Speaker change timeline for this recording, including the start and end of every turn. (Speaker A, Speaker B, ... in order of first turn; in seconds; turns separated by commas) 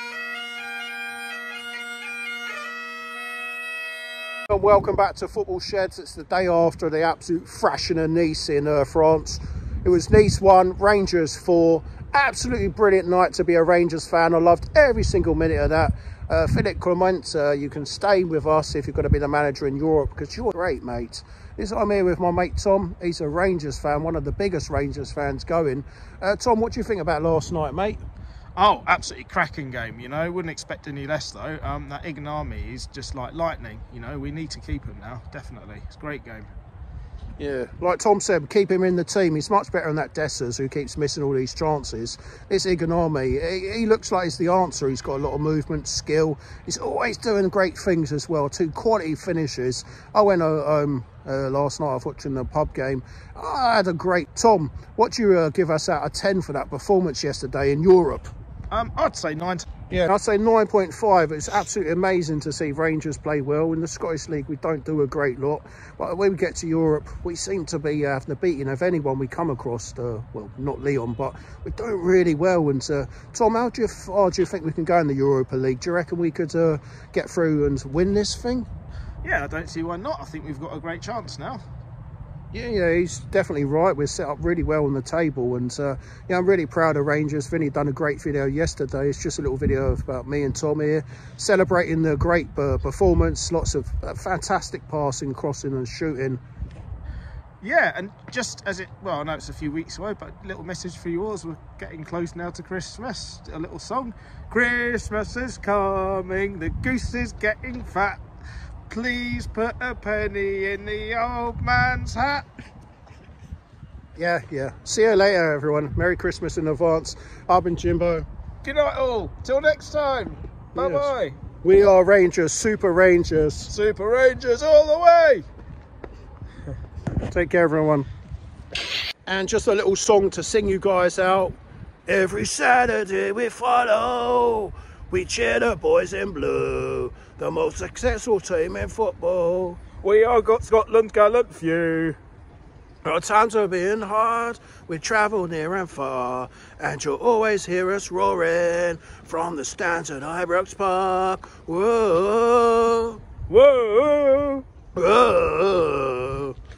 Speaker A: 4.5-28.0, Speaker B: 28.6-36.5, Speaker A: 37.4-58.3, Speaker B: 58.7-59.9, Speaker A: 59.9-78.7, Speaker B: 79.2-81.6, Speaker A: 82.5-96.4, Speaker B: 97.6-108.2, Speaker B: 108.9-112.5, Speaker A: 114.2-118.3, Speaker B: 118.6-121.4, Speaker A: 120.8-121.1, Speaker A: 121.6-123.7, Speaker B: 123.7-125.5, Speaker A: 127.2-128.1, Speaker A: 129.2-131.5, Speaker A: 132.1-139.8, Speaker B: 140.0-142.2, Speaker A: 143.0-153.2, Speaker B: 153.5-154.6, Speaker A: 154.9-156.5